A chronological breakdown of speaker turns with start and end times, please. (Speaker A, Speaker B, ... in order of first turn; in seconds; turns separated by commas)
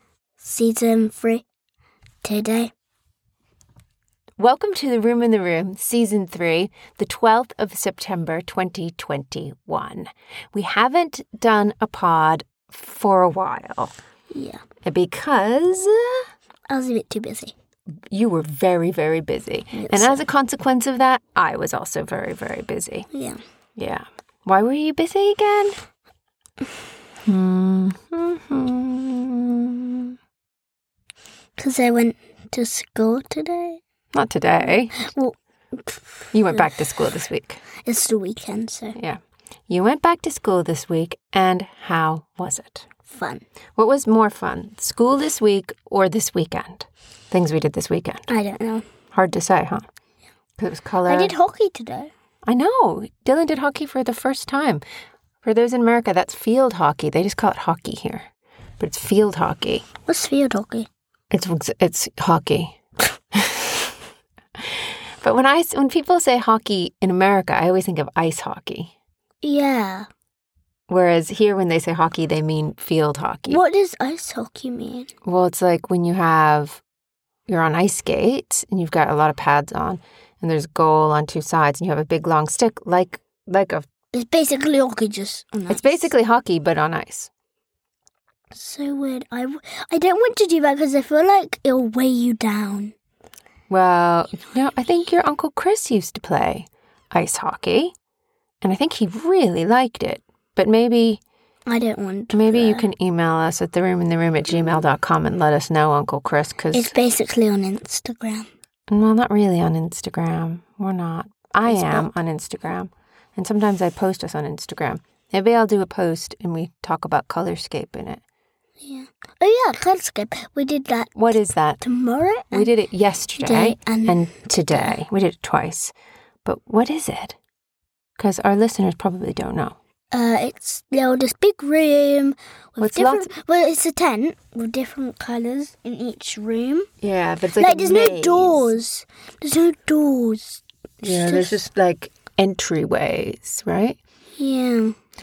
Speaker A: 0.4-1.4, Speaker A: 2.2-2.7, Speaker B: 4.4-13.9, Speaker A: 14.3-14.6, Speaker B: 14.8-16.2, Speaker A: 16.7-17.5, Speaker B: 18.1-23.1, Speaker A: 19.7-20.2, Speaker A: 23.1-23.4, Speaker B: 23.8-25.7, Speaker B: 27.3-30.1, Speaker A: 31.6-33.8, Speaker B: 34.1-35.1, Speaker A: 35.0-36.3, Speaker B: 36.3-37.6, Speaker A: 37.8-39.0, Speaker B: 39.0-42.9, Speaker A: 43.1-43.4, Speaker B: 43.8-48.3, Speaker A: 48.3-48.9, Speaker B: 49.1-49.9, Speaker B: 50.6-51.3, Speaker A: 51.1-52.1, Speaker B: 52.5-54.8, Speaker B: 55.4-58.3, Speaker B: 58.8-59.9, Speaker A: 60.1-60.9, Speaker B: 61.3-62.8, Speaker B: 63.3-63.9, Speaker B: 64.6-68.9, Speaker A: 69.4-70.1, Speaker B: 70.9-73.6, Speaker A: 73.5-75.1, Speaker B: 75.2-76.8, Speaker B: 77.5-83.9, Speaker A: 84.1-86.1, Speaker B: 85.7-87.3, Speaker A: 88.5-93.0, Speaker B: 93.7-97.9, Speaker B: 98.6-101.2, Speaker A: 101.7-102.9, Speaker B: 102.3-106.9, Speaker A: 106.7-108.5, Speaker B: 108.9-118.2, Speaker A: 111.7-112.1, Speaker A: 118.8-122.7, Speaker B: 121.2-121.8, Speaker B: 122.5-125.9, Speaker A: 123.4-124.9, Speaker B: 126.5-127.4, Speaker B: 128.2-129.8, Speaker A: 130.1-136.9, Speaker B: 132.8-133.3, Speaker B: 137.0-138.8, Speaker A: 137.6-141.6, Speaker B: 141.0-144.0, Speaker A: 144.4-145.0